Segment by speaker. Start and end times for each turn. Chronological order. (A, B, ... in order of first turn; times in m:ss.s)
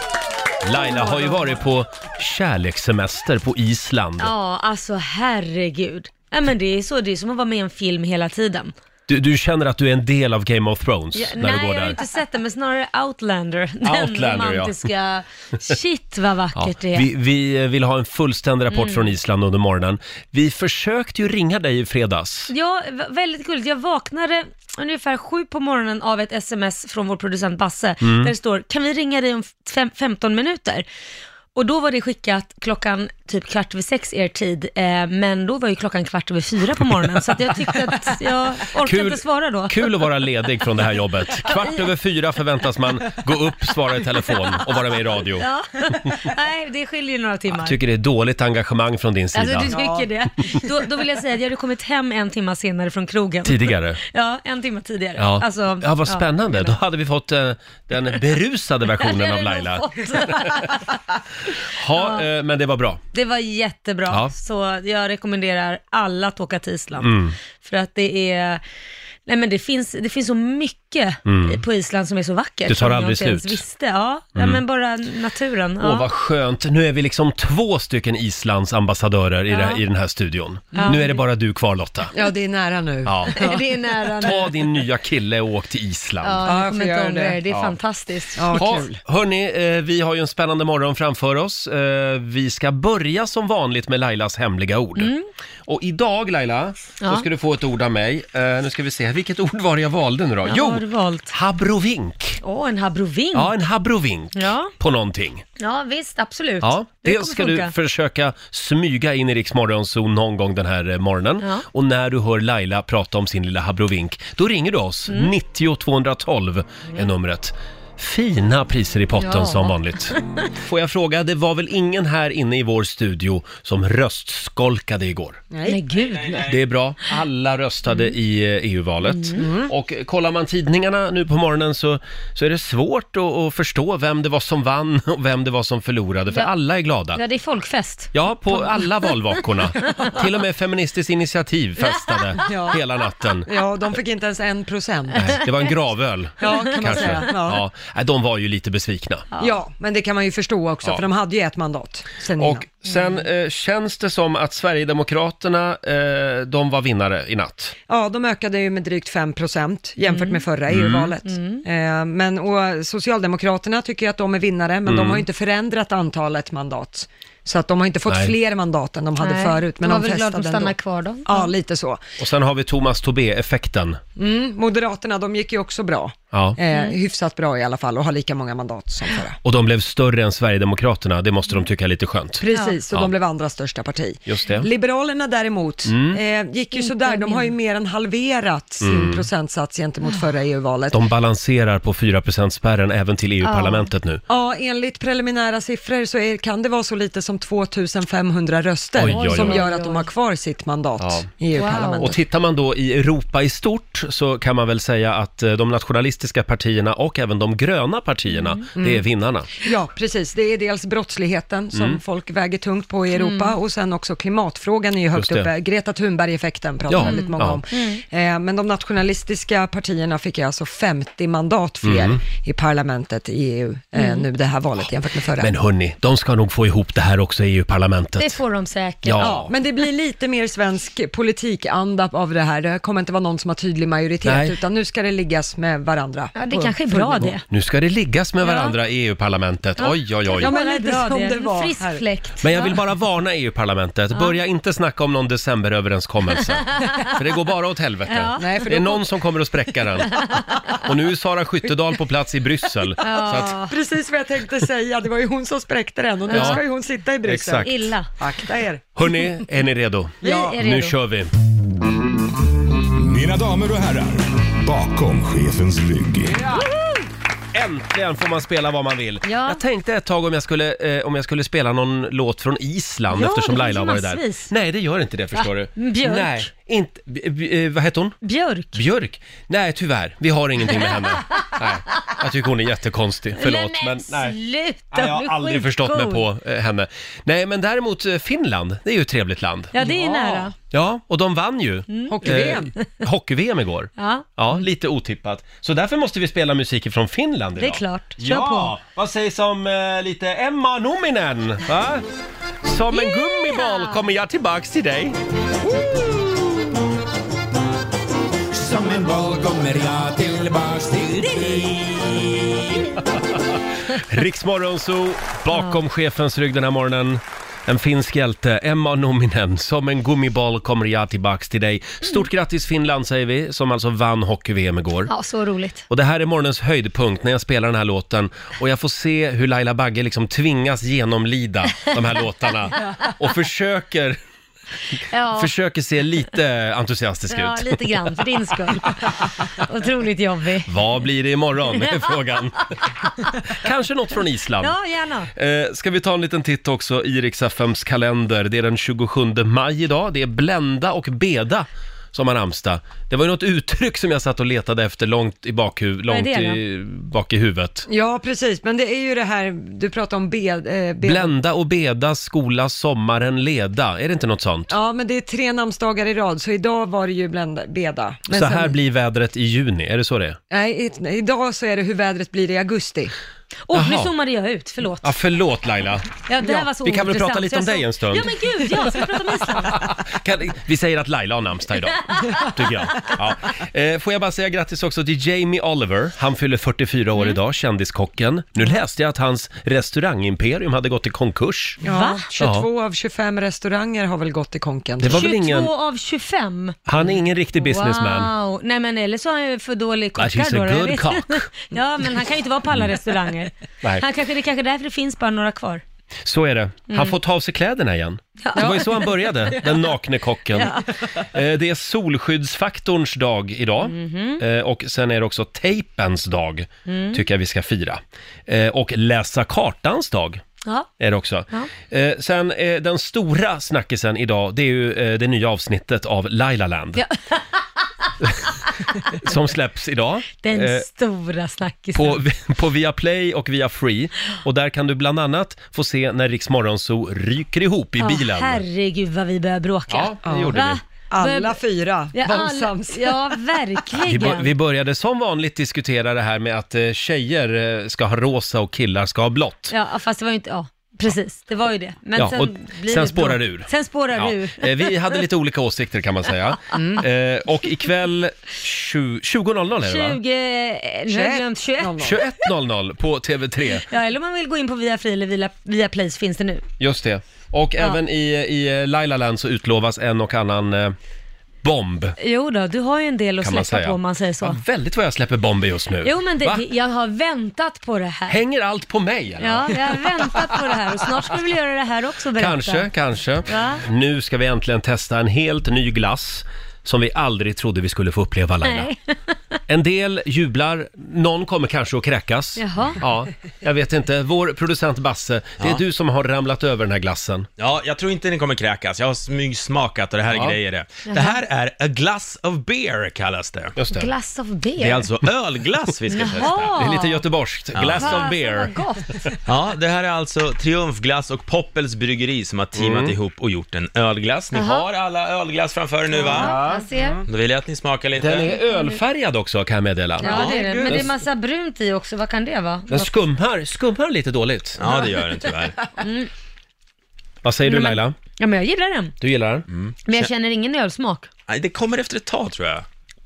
0:00.6-0:04.3 A
0:00.8-0:01.6 B
0:04.2-0:08.7 B
0:09.1-0:12.0 A
0:11.1-0:17.1 B
0:13.8-0:14.9 A
0:16.6-0:22.5 A
0:18.7-0:19.1 B
0:22.5-0:30.8 B
0:28.0-0:28.3 A
0:31.6-0:40.0 B
0:38.7-0:45.5 A
0:41.4-0:41.8 B
0:45.3-0:47.8 B
0:47.5-0:49.7 A
0:49.3-0:56.8 B
0:49.6-0:50.1 C
0:53.4-0:54.0 A
0:55.2-1:00.6 A
0:58.9-1:00.9 B
1:01.7-1:03.0 A
1:01.9-1:02.2 B
1:03.1-1:08.6 B
1:04.1-1:04.3 A
1:07.0-1:07.4 A
1:09.3-1:16.1 B
1:11.3-1:11.6 A
1:12.7-1:13.6 A
1:14.4-1:14.6 A
1:15.8-1:22.1 A
1:19.5-1:19.8 B
1:20.7-1:21.2 B
1:22.1-1:23.6 C
1:23.0-1:23.6 A
1:23.3-1:24.5 B
1:24.2-1:26.4 A
1:26.2-1:28.8 B
1:26.4-1:27.4 C
1:27.5-1:27.8 A
1:28.4-1:29.0 C
1:28.5-1:35.1 A
1:35.0-1:35.3 B
1:35.7-1:42.4 A
1:40.4-1:41.3 B
1:42.4-1:43.5 B
1:43.3-1:45.4 A
1:44.4-1:44.7 B
1:45.6-1:47.7 B
1:46.6-2:05.4 A
1:59.2-2:00.4 B
2:05.5-2:05.8 C
2:05.6-2:06.5 B
2:05.9-2:06.6 D
2:06.4-2:17.2 A
2:09.0-2:09.4 B
2:09.4-2:09.7 C
2:17.1-2:19.2 B
2:18.1-2:23.5 A
2:19.9-2:20.1 B
2:21.9-2:22.4 B
2:22.4-2:22.8 C
2:23.5-2:25.5 C
2:25.2-2:29.3 A
2:26.4-2:27.6 C
2:26.4-2:27.3 B
2:29.4-2:32.7 C
2:32.4-2:37.8 A
2:37.9-2:50.7 C
2:40.1-2:40.4 B
2:40.7-2:41.1 A
2:41.2-2:41.6 B
2:44.9-2:45.3 A
2:48.1-2:48.3 A
2:49.2-2:51.5 B
2:51.2-2:52.0 C
2:52.2-2:54.0 A
2:54.2-2:59.4 C
2:56.3-2:56.6 A
2:56.7-2:57.0 B
2:59.4-3:03.1 A
3:02.4-3:11.0 C
3:02.5-3:02.8 B
3:04.3-3:04.7 A
3:05.8-3:06.2 A
3:06.7-3:07.5 B
3:08.8-3:09.3 A
3:10.9-3:14.2 A
3:13.4-3:13.9 B
3:14.3-3:22.2 C
3:19.0-3:19.7 A
3:19.0-3:20.1 B
3:21.0-3:21.3 A
3:21.5-3:22.1 B
3:21.9-3:29.5 A
3:28.3-3:28.7 B
3:28.8-3:29.0 C
3:29.6-3:45.5 C
3:31.7-3:32.0 A
3:33.2-3:33.6 B
3:35.1-3:35.5 A
3:36.9-3:37.6 A
3:37.0-3:38.0 B
3:41.8-3:42.2 A
3:44.0-3:44.3 B
3:45.4-3:48.4 A
3:48.2-3:49.3 B
3:49.0-3:49.5 A
3:49.2-3:57.3 C
3:54.2-3:54.6 A
3:56.3-3:57.4 B
3:57.5-4:00.6 A
3:58.4-3:58.8 B
3:59.8-4:02.7 B
4:00.4-4:02.0 C
4:02.4-4:13.6 A
4:08.1-4:08.5 B
4:08.4-4:09.1 C
4:10.2-4:10.8 B
4:13.0-4:13.7 B
4:13.1-4:19.2 C
4:16.3-4:16.6 B
4:16.3-4:16.6 A
4:17.2-4:17.9 A
4:17.6-4:18.1 B
4:19.0-4:21.3 A
4:20.2-4:20.6 C
4:20.2-4:21.0 B
4:23.0-4:26.4 E
4:27.5-4:38.2 A
4:29.2-4:29.6 B
4:33.1-4:34.5 B
4:35.4-4:36.5 B
4:38.2-4:38.8 B
4:38.7-4:44.4 A
4:40.8-4:41.5 B
4:43.4-4:46.2 B
4:44.9-4:49.7 A
4:49.7-4:50.5 B
4:49.8-4:50.5 C
4:50.7-5:02.1 A
4:51.9-4:52.9 B
4:52.1-4:52.7 C
4:54.0-4:54.3 B
4:57.6-4:58.8 B
5:02.6-5:05.2 A
5:02.9-5:04.0 B
5:08.5-5:12.6 F
5:13.1-5:25.1 A
5:15.5-5:15.8 B
5:25.1-5:25.8 B
5:25.9-5:34.2 A
5:35.1-5:35.5 B
5:35.4-5:39.1 A
5:37.3-5:40.8 B
5:40.7-5:42.7 A
5:41.8-5:42.2 B
5:42.7-5:43.4 B
5:43.5-5:44.8 A
5:44.6-5:45.3 B
5:45.3-5:57.9 A
5:56.1-5:56.6 B
5:57.9-6:01.3 C
6:01.0-6:04.7 A
6:04.7-6:08.8 C
6:08.3-6:10.4 A
6:10.5-6:13.1 C
6:13.7-6:15.1 B
6:13.7-6:14.1 A
6:15.0-6:31.8 A
6:16.3-6:19.8 B
6:22.0-6:22.5 B
6:31.8-6:35.2 C
6:31.9-6:32.2 B
6:32.4-6:32.7 A
6:35.0-6:35.7 A
6:35.1-6:36.8 B
6:36.9-6:38.3 A
6:37.6-6:45.8 B
6:40.2-6:41.5 A
6:46.2-7:00.4 A
6:46.9-6:47.2 B
6:48.4-6:49.1 B
6:48.6-6:49.6 C
6:50.5-6:50.8 B
6:53.8-6:54.4 B
6:56.9-6:57.2 B
7:00.6-7:00.9 B
7:01.0-7:07.0 A
7:07.0-7:07.4 B
7:09.1-7:10.9 A
7:10.4-7:12.2 B
7:12.0-7:18.6 A
7:18.0-7:21.6 B
7:19.9-7:20.8 A
7:20.2-7:23.5 C
7:22.1-7:24.5 B
7:24.0-7:29.7 A
7:29.7-7:35.2 B
7:32.2-7:40.2 A
7:36.7-7:37.0 C
7:39.8-7:42.2 B
7:41.1-7:42.2 C
7:42.0-7:43.9 A
7:43.8-7:46.6 B
7:46.8-7:51.0 A
7:51.6-7:52.2 A
7:52.2-7:54.6 B
7:53.4-7:56.7 A
7:56.0-7:58.4 B
7:58.3-8:01.2 A
7:59.4-8:02.9 B
8:02.4-8:08.9 A
8:03.5-8:03.8 B
8:08.6-8:09.1 B
8:09.7-8:17.5 A
8:12.6-8:13.0 B
8:17.6-8:23.8 D
8:20.3-8:20.6 A
8:21.1-8:21.4 B
8:23.8-8:24.1 A
8:23.9-8:25.1 B
8:24.8-8:26.7 D
8:26.1-8:27.2 B
8:26.4-8:29.4 A
8:27.8-8:28.2 D
8:28.0-8:29.2 B
8:29.4-8:36.6 D
8:32.8-8:33.2 A
8:34.5-8:34.9 B
8:36.2-8:37.2 B
8:36.2-8:36.9 A
8:37.3-8:38.5 D
8:38.2-8:41.1 A
8:38.5-8:39.0 B
8:40.2-8:43.1 B
8:40.2-8:41.2 C
8:42.9-8:45.0 A
8:44.8-8:45.8 D
8:46.0-8:46.3 B
8:47.4-8:48.2 A
8:47.6-8:49.1 B
8:49.2-8:49.7 A
8:49.7-8:50.3 D
8:50.1-8:51.3 B
8:51.5-8:52.8 D